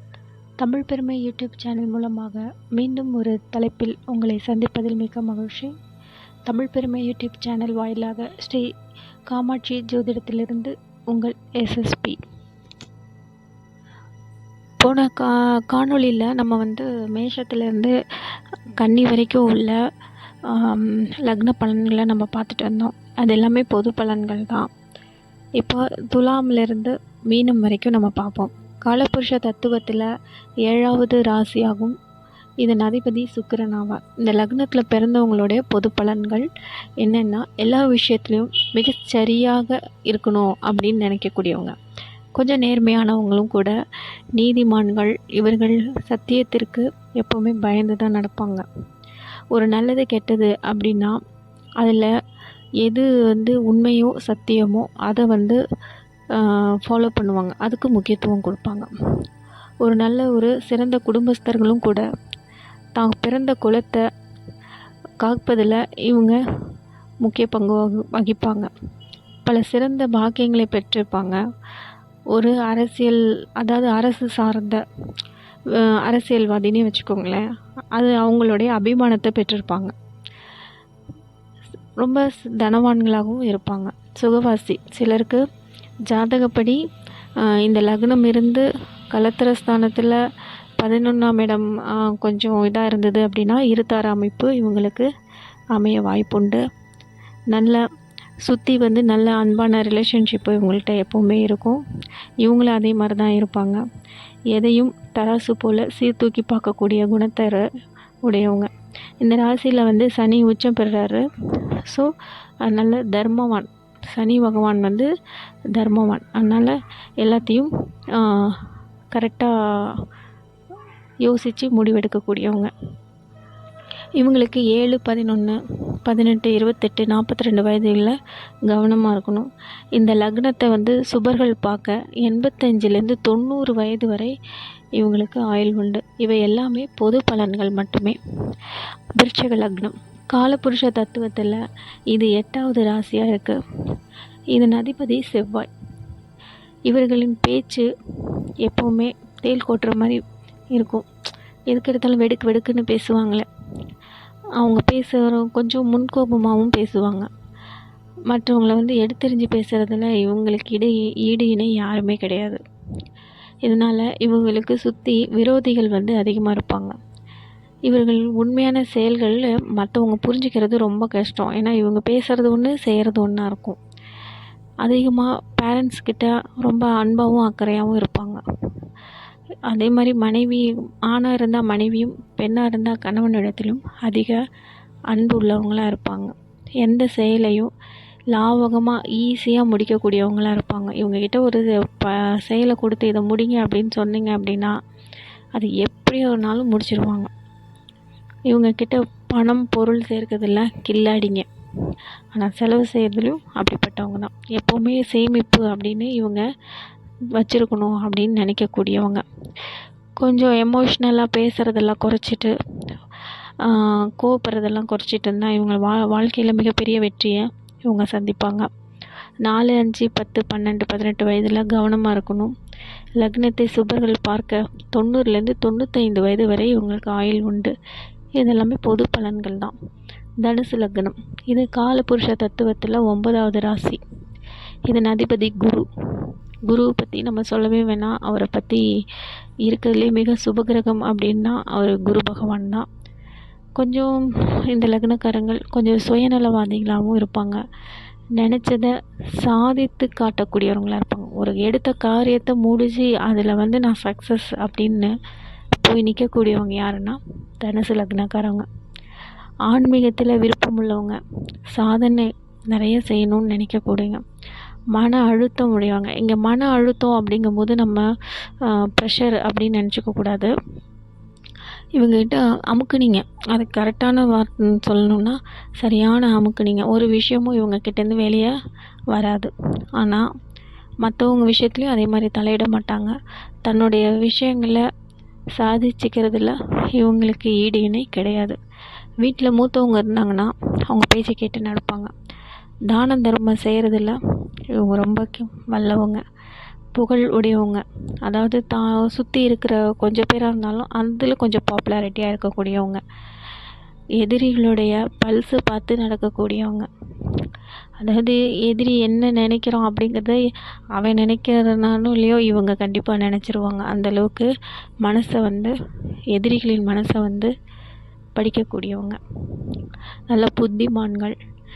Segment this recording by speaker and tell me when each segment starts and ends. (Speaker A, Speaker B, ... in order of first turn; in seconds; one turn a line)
Speaker A: 0.6-5.7
Speaker A: 6.5-8.7
Speaker A: 9.3-12.2
Speaker A: 14.8-17.9
Speaker A: 18.8-19.8
Speaker A: 20.4-24.7
Speaker A: 25.6-30.1
Speaker A: 30.6-31.9
Speaker A: 32.6-36.5
Speaker A: 37.0-41.7
Speaker A: 42.3-43.7
Speaker A: 44.3-48.6
Speaker A: 49.5-51.2
Speaker A: 51.8-52.1
Speaker A: 52.8-55.6
Speaker A: 56.3-58.9
Speaker A: 59.8-62.0
Speaker A: 63.0-64.0
Speaker A: 65.2-66.4
Speaker A: 67.2-68.7
Speaker A: 69.4-71.4
Speaker A: 72.3-74.8
Speaker A: 75.7-79.9
Speaker A: 82.0-85.4
Speaker A: 86.1-86.8
Speaker A: 87.4-90.2
Speaker A: 90.8-95.1
Speaker A: 95.7-96.6
Speaker A: 97.5-97.8
Speaker A: 98.4-101.8
Speaker A: 102.4-103.8
Speaker A: 104.5-107.6
Speaker A: 108.2-108.7
Speaker A: 109.2-111.2
Speaker A: 111.8-112.1
Speaker A: 112.6-115.1
Speaker A: 115.7-120.0
Speaker A: 121.2-122.7
Speaker A: 124.2-128.2
Speaker A: 128.7-134.3
Speaker A: 135.0-138.2
Speaker A: 139.2-143.6
Speaker A: 144.5-145.7
Speaker A: 146.9-147.9
Speaker A: 148.6-150.2
Speaker A: 150.7-151.0
Speaker A: 151.7-153.5
Speaker A: 154.6-157.3
Speaker A: 158.3-162.6
Speaker A: 163.6-166.9
Speaker A: 167.9-173.8
Speaker A: 174.8-178.4
Speaker A: 179.7-184.4
Speaker A: 185.1-187.7
Speaker A: 188.3-194.7
Speaker A: 195.5-197.3
Speaker A: 198.5-201.5
Speaker A: 202.3-206.4
Speaker A: 207.3-209.2
Speaker A: 210.2-212.5
Speaker A: 213.6-218.7
Speaker A: 219.4-222.5
Speaker A: 223.2-227.7
Speaker A: 228.4-229.7
Speaker A: 230.4-234.0
Speaker A: 234.9-238.8
Speaker A: 239.6-242.8
Speaker A: 243.8-247.6
Speaker A: 248.3-255.1
Speaker A: 255.7-258.6
Speaker A: 259.7-261.2
Speaker A: 261.7-264.2
Speaker A: 264.9-268.0
Speaker A: 268.6-270.5
Speaker A: 272.0-278.5
Speaker A: 279.1-280.2
Speaker A: 281.0-283.1
Speaker A: 283.6-284.8
Speaker A: 285.5-288.6
Speaker A: 289.2-292.1
Speaker A: 292.9-294.2
Speaker A: 294.7-296.2
Speaker A: 296.9-303.0
Speaker A: 304.2-307.4
Speaker A: 308.0-310.4
Speaker A: 310.9-314.5
Speaker A: 315.0-315.7
Speaker A: 316.3-317.5
Speaker A: 318.4-319.8
Speaker A: 320.3-321.3